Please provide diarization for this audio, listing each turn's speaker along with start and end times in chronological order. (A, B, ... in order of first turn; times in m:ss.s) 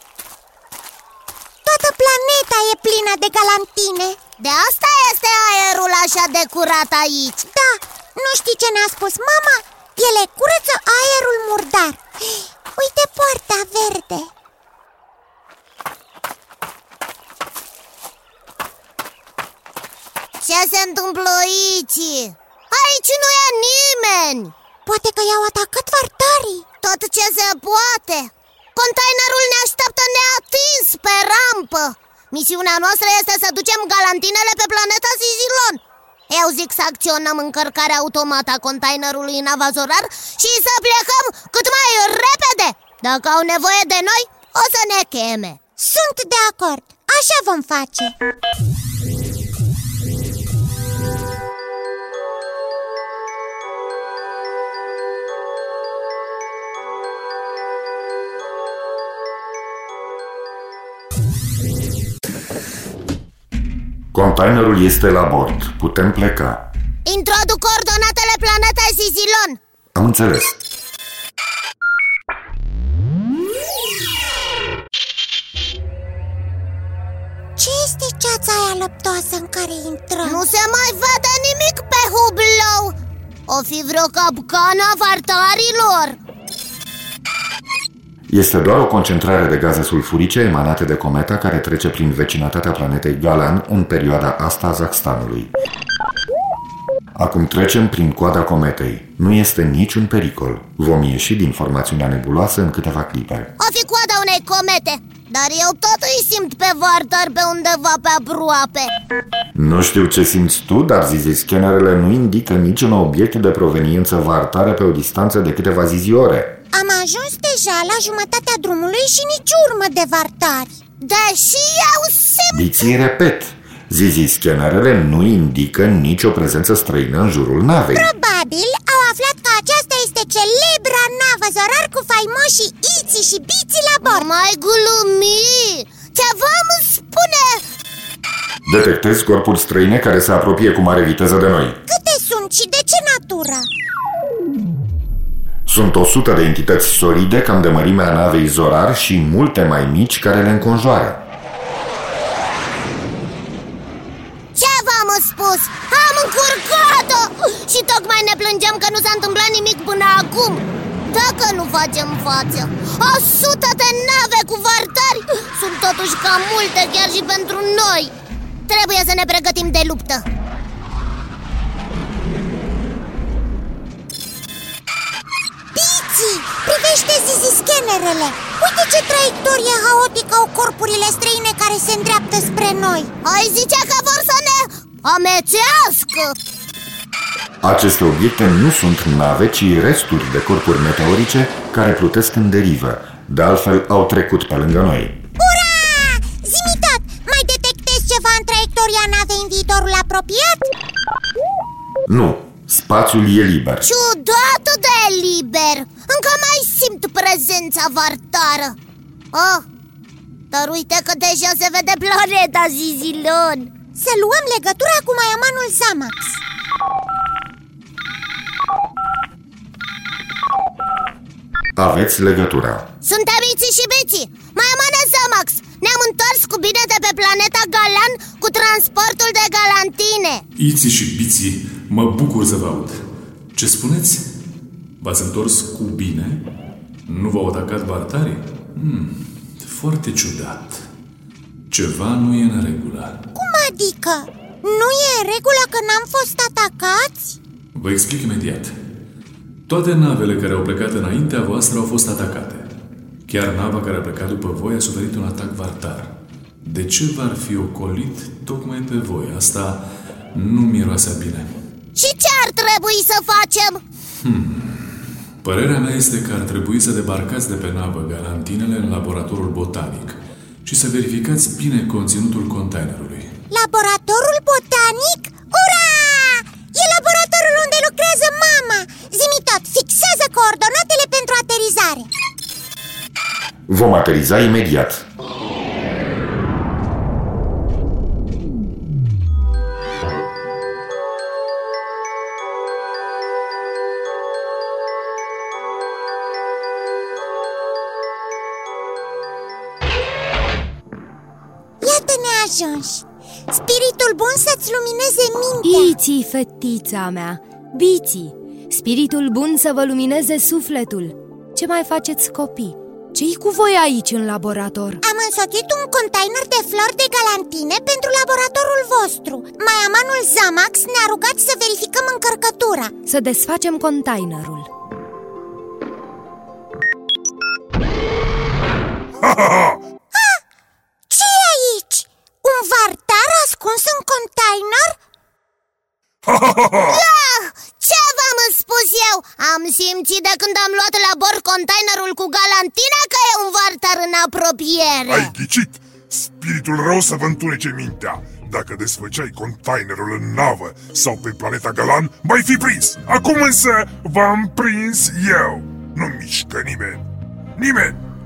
0:01.6-0:04.2 A
0:04.4-0:07.4 B
0:07.5-0:14.3 A
0:20.4-0:24.5 B
0:24.8-0:26.6 A
0:26.8-0:45.6 B
0:45.8-0:48.1 A
1:04.1-1:06.7 C
1:07.0-1:09.6 B
1:09.9-1:10.6 C
1:17.6-1:20.4 A
1:20.2-1:22.9 B
1:23.5-1:26.2 B
1:28.3-1:35.5 C
1:37.1-1:43.5 C
1:43.6-1:48.9 B
1:49.5-1:56.6 C
1:56.7-2:00.7 A
2:01.0-2:02.8 B
2:02.5-2:08.1 C
2:07.9-2:14.3 A
2:14.0-2:17.6 B
2:18.6-2:21.8 C
2:21.9-2:23.7 A
2:25.6-2:31.2 C
2:34.5-2:48.1 B
2:48.7-2:50.2 B
2:55.7-3:03.1 A
3:03.2-3:06.4 B
3:07.6-3:15.2 C
3:15.4-3:20.7 A
3:22.1-3:23.9 C
3:23.8-3:28.8 B
3:29.3-3:29.6 B
3:30.5-3:33.7 B
3:34.0-3:36.4 A
3:41.8-3:42.9 C
3:43.0-3:50.4 B
3:50.6-3:54.3 D
3:55.0-3:56.5 D
3:57.1-4:00.9 D
4:01.7-4:03.2 D
4:03.3-4:07.4 A
4:07.7-4:08.8 D
4:09.7-4:12.7 D
4:13.3-4:21.6 D
4:22.0-4:23.8 B
4:24.2-4:33.4 D
4:33.5-4:42.1 A
4:43.7-4:45.0 C
5:01.8-5:05.9 A
5:05.6-5:15.0 E
5:15.0-5:22.9 A
5:23.0-5:24.7 E
5:29.2-5:29.8 F
5:30.1-5:30.4 A
5:31.1-5:35.0 A
5:36.2-5:37.0 F
5:36.8-5:45.3 B
5:45.1-5:57.0 F
5:57.6-5:58.0 F